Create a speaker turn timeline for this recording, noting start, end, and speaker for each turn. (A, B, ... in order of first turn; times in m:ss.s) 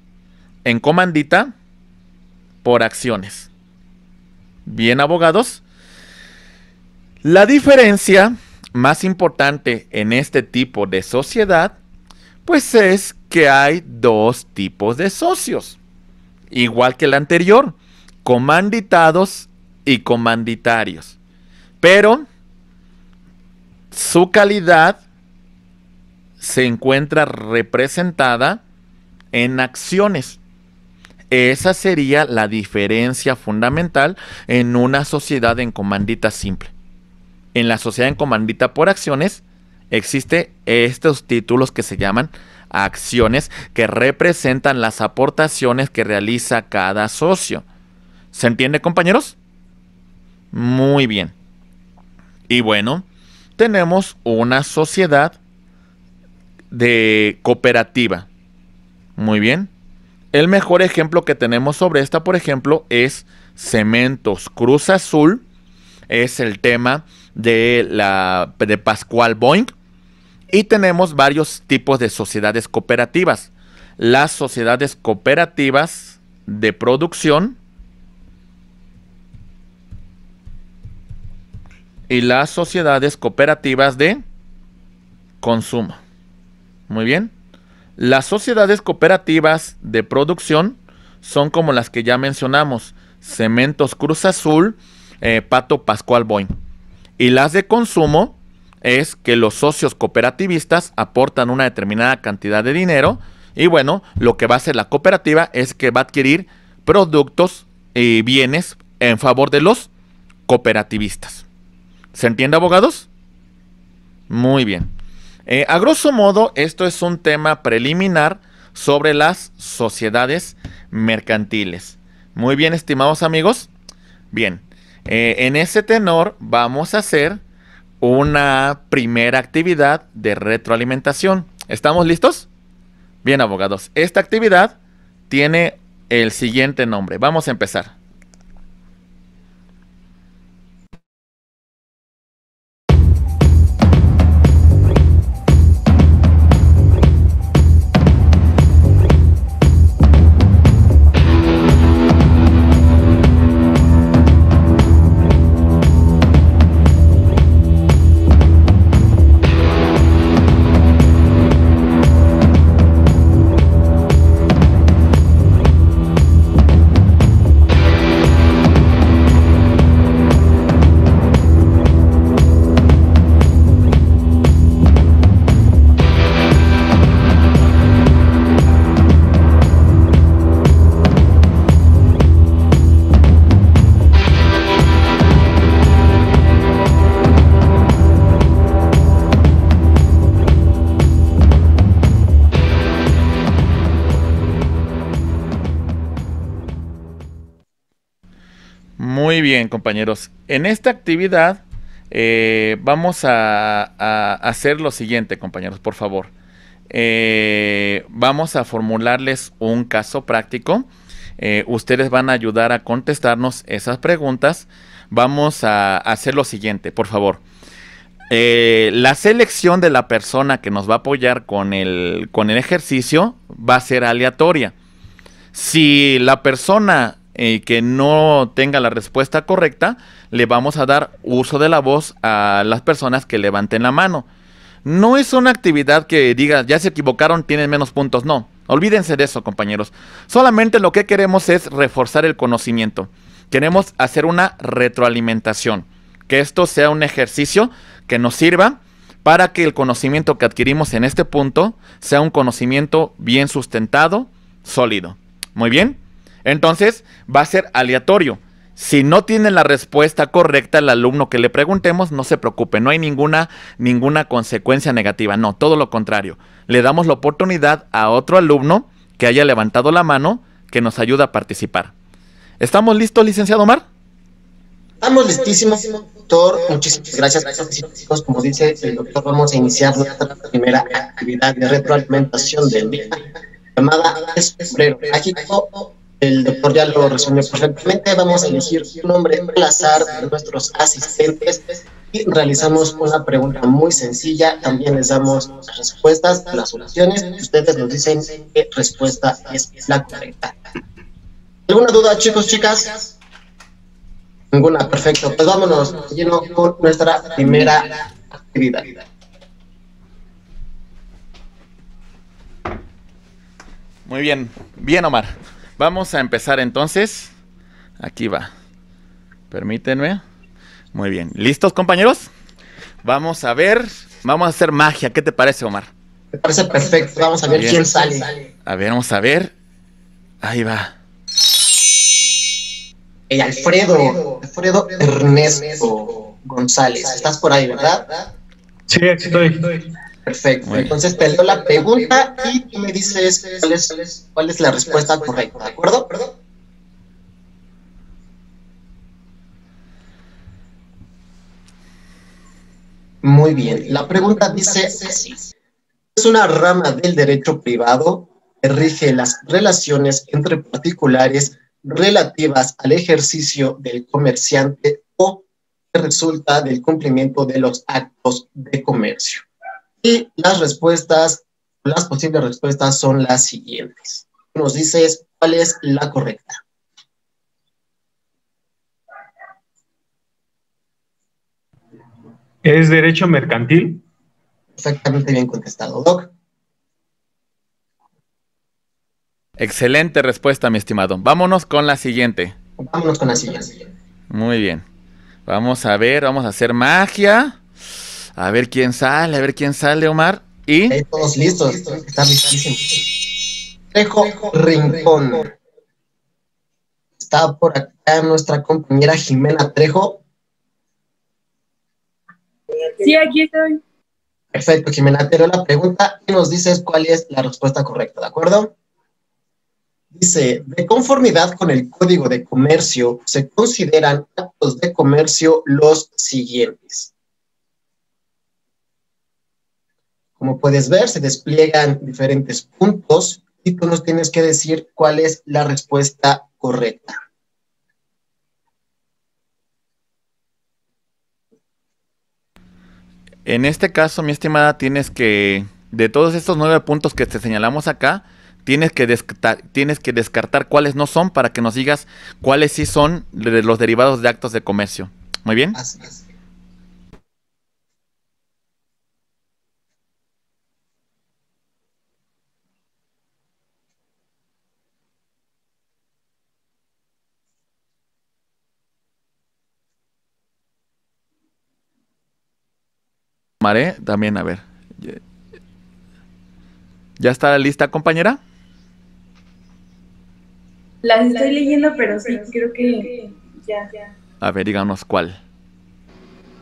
0:00.6-0:01.5 A
0:02.6-0:03.5 A
0:04.7-0:05.6 A
0:07.2-0:11.8 A
0:12.4-0:15.8 A
0:16.5-0:21.2 A
0:21.8-0:22.3 A
0:23.9-0:25.0 A
0:26.4-0:28.6 A
0:29.3-0:30.4 A
0:31.3-0:36.7 A
0:37.5-0:47.6 A
0:48.3-0:49.4 A
0:50.5-0:51.3 A
0:52.5-0:53.0 A
0:53.6-0:55.4 A
0:56.7-0:58.3 A
0:59.2-0:59.7 A
1:00.3-1:05.4 A
1:06.1-1:09.7 A
1:10.5-1:17.6 A
1:22.1-1:24.2 A
1:25.4-1:26.0 A
1:26.9-1:27.3 A
1:28.0-1:36.5 A
1:37.2-1:49.9 A
1:50.5-1:51.4 A
1:52.1-1:53.1 A
1:54.3-1:54.9 A
1:55.5-2:03.7 A
2:04.3-2:07.4 A
2:08.0-2:12.5 A
2:13.2-2:14.8 A
2:15.3-2:17.9 A
3:19.0-3:26.3 A
3:26.9-3:30.9 A
3:31.4-3:37.4 A
3:38.3-3:44.7 A
3:45.5-3:54.3 A
3:54.8-4:31.9 A
4:32.6-4:33.8 A
4:35.0-5:00.6 B
5:01.7-5:03.1 B
5:04.5-5:09.0 B
5:14.1-5:17.3 A
5:18.0-5:18.5 A
5:19.5-5:20.2 A
5:20.9-5:22.3 A
5:23.0-5:25.9 A
5:26.3-5:28.3 B
5:27.6-5:27.8 A
5:28.7-5:29.5 A
5:30.4-5:30.9 A
5:33.3-5:38.1 B
5:38.9-5:39.7 C
5:40.2-5:46.2 B
5:40.7-5:40.9 A
5:53.2-5:55.5 B
5:56.2-6:09.5 B
6:10.0-6:16.6 B
6:22.6-6:24.0 C
6:24.8-6:26.3 B
6:29.6-6:32.6 A
6:32.8-6:33.9 B
6:34.3-6:34.8 A
6:35.5-6:37.6 A
6:38.4-6:41.0 A
6:40.9-6:43.1 B
6:43.9-6:45.5 B
6:47.2-6:50.2 B
6:53.0-6:53.8 D
6:54.5-6:58.7 B
7:00.1-7:07.1 B
7:10.4-7:17.2 B
7:23.5-7:35.8 A
7:35.8-7:36.2 B
7:53.6-7:55.2 A
7:57.2-7:58.4 A
8:01.0-8:04.1 D
8:04.4-8:05.4 A